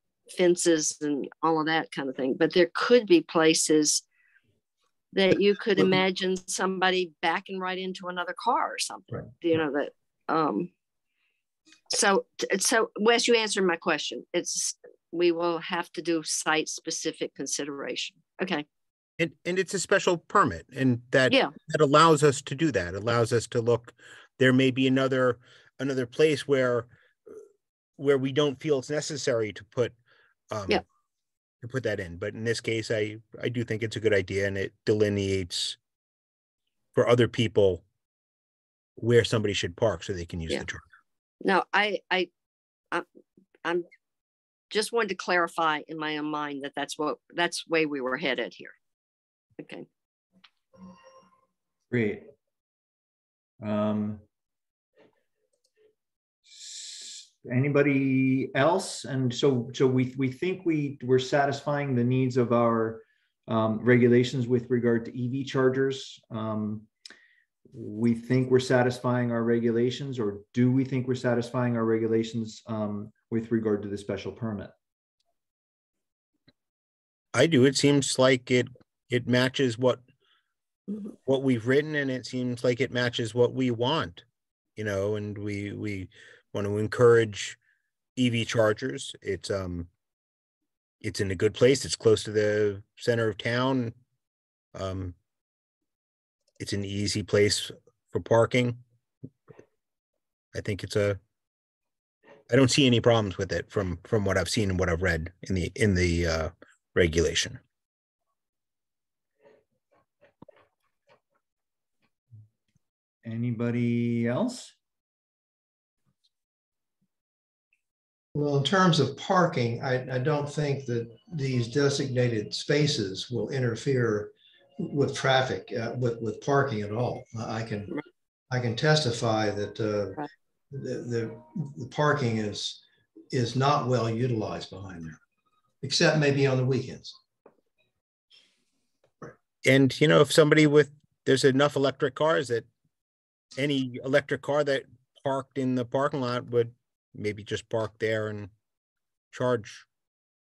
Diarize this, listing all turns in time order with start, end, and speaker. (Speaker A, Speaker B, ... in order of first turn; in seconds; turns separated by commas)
Speaker A: 0.3-4.0, Speaker A: 5.1-10.7, Speaker A: 11.9-18.6, Speaker B: 19.2-26.9, Speaker B: 28.0-29.9, Speaker B: 30.5-30.8, Speaker B: 31.6-35.8, Speaker B: 36.9-37.8, Speaker B: 39.0-40.8, Speaker A: 41.4-42.3, Speaker A: 44.7-48.7, Speaker A: 49.6-49.8, Speaker C: 51.9-52.2, Speaker C: 53.6-54.2, Speaker C: 56.5-66.9, Speaker C: 67.7-74.7, Speaker B: 77.3-80.0, Speaker B: 81.2-84.2, Speaker B: 84.8-87.6, Speaker B: 88.2-89.9, Speaker B: 91.0-93.9, Speaker B: 94.7-95.2, Speaker B: 96.6-98.8, Speaker B: 100.5-101.2, Speaker B: 102.5-107.6, Speaker C: 113.2-114.7, Speaker D: 118.3-127.9, Speaker D: 128.5-130.2, Speaker D: 130.7-135.2, Speaker D: 135.8-137.2, Speaker B: 139.6-142.7, Speaker B: 143.6-148.5, Speaker B: 149.3-149.8